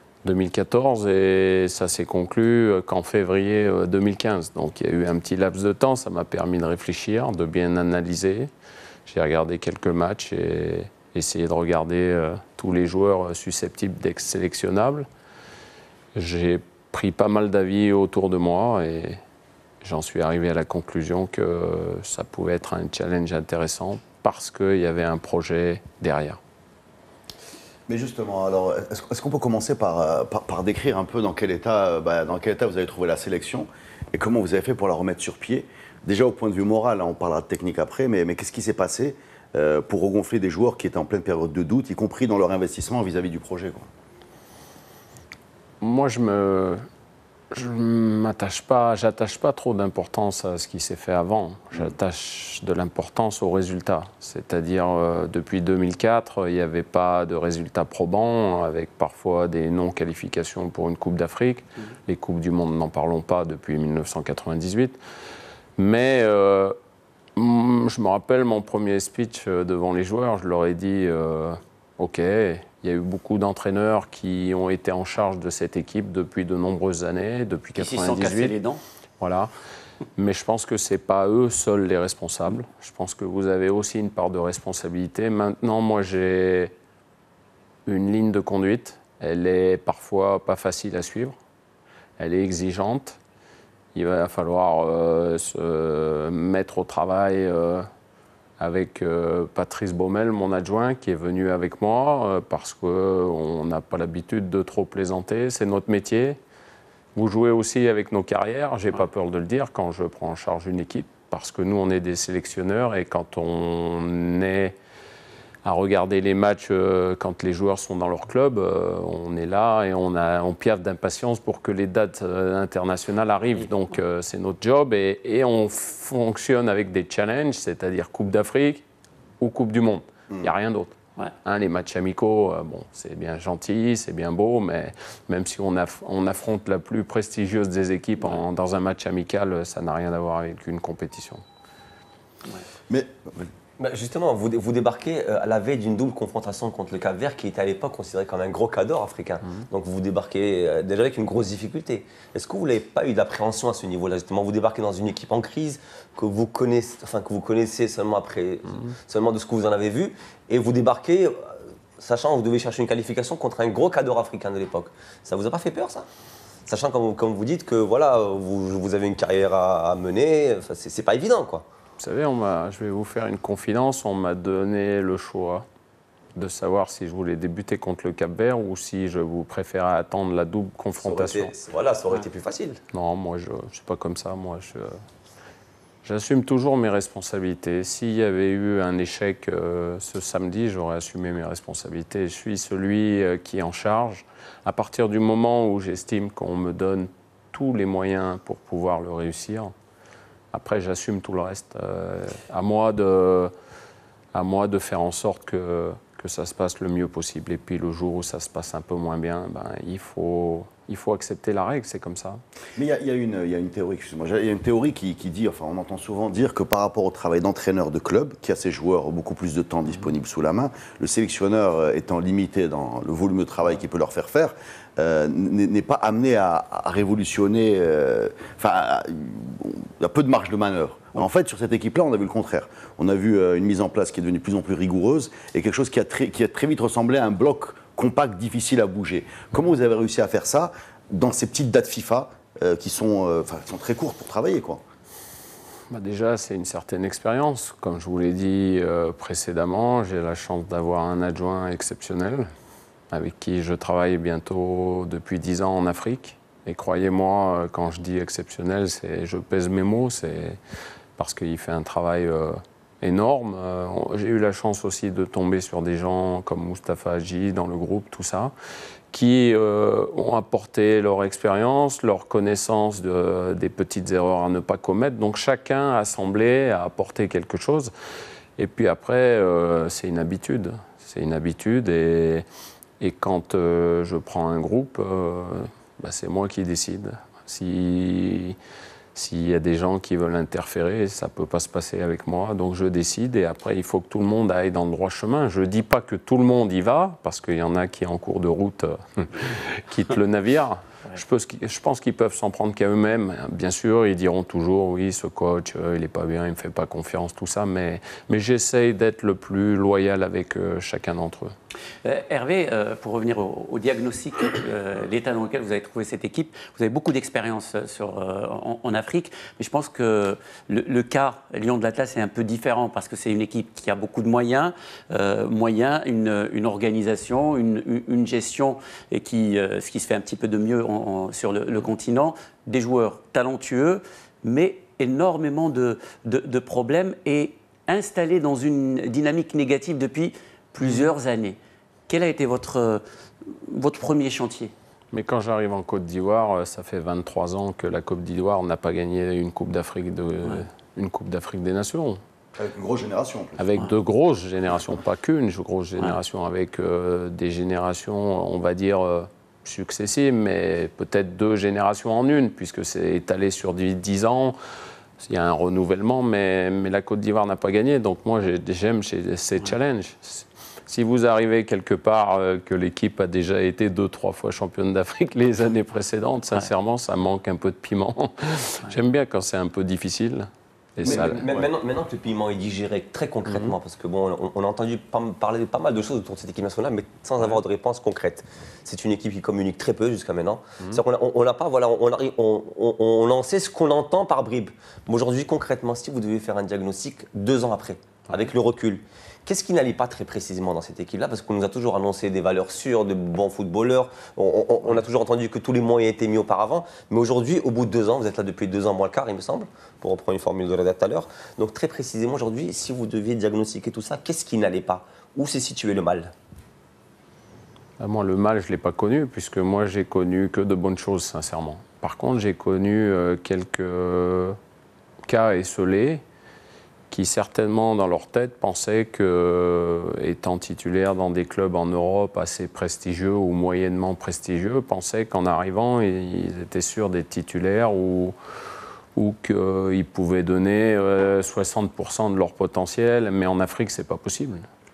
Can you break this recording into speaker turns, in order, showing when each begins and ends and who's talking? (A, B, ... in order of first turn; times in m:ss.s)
0:00.2-0:08.5 A
0:09.1-0:15.1 A
0:16.1-0:19.2 A
0:19.8-0:26.4 A
0:27.9-0:43.9 B
0:45.8-0:46.8 A
0:47.5-1:05.0 A
1:05.8-1:06.8 A
1:07.4-1:18.5 A
1:17.8-1:18.8 C
1:19.2-1:19.5 A
1:20.2-1:26.7 A
1:27.8-1:31.4 A
1:32.2-1:33.2 A
1:33.9-1:37.9 A
1:38.6-1:46.4 A
1:47.1-1:54.7 A
1:55.6-2:08.8 A
2:09.4-2:21.4 A
2:22.9-2:23.5 B
2:23.8-2:46.1 D
2:46.7-2:51.6 D
2:52.0-2:55.6 A
2:56.3-3:01.5 A
3:01.0-3:02.8 D
3:02.9-3:05.0 A
3:06.0-3:19.7 A
3:20.5-3:23.5 A
3:24.3-3:32.4 A
3:32.8-4:04.8 B
4:05.9-4:12.5 A
4:13.1-4:20.6 A
4:21.2-4:28.5 A
4:29.1-4:37.9 A
4:38.6-4:42.4 A
4:43.0-4:48.6 A
4:49.1-5:11.5 A
5:12.0-5:41.6 C
5:42.1-5:44.7 C
5:45.1-5:52.2 A
5:52.5-5:53.6 B
5:53.6-6:04.6 A
6:05.2-6:21.4 A
6:21.0-6:21.6 B
6:21.0-6:56.3 D
6:58.0-7:04.6 A
7:05.2-7:06.2 A
7:07.1-7:18.3 A
7:19.1-7:24.6 A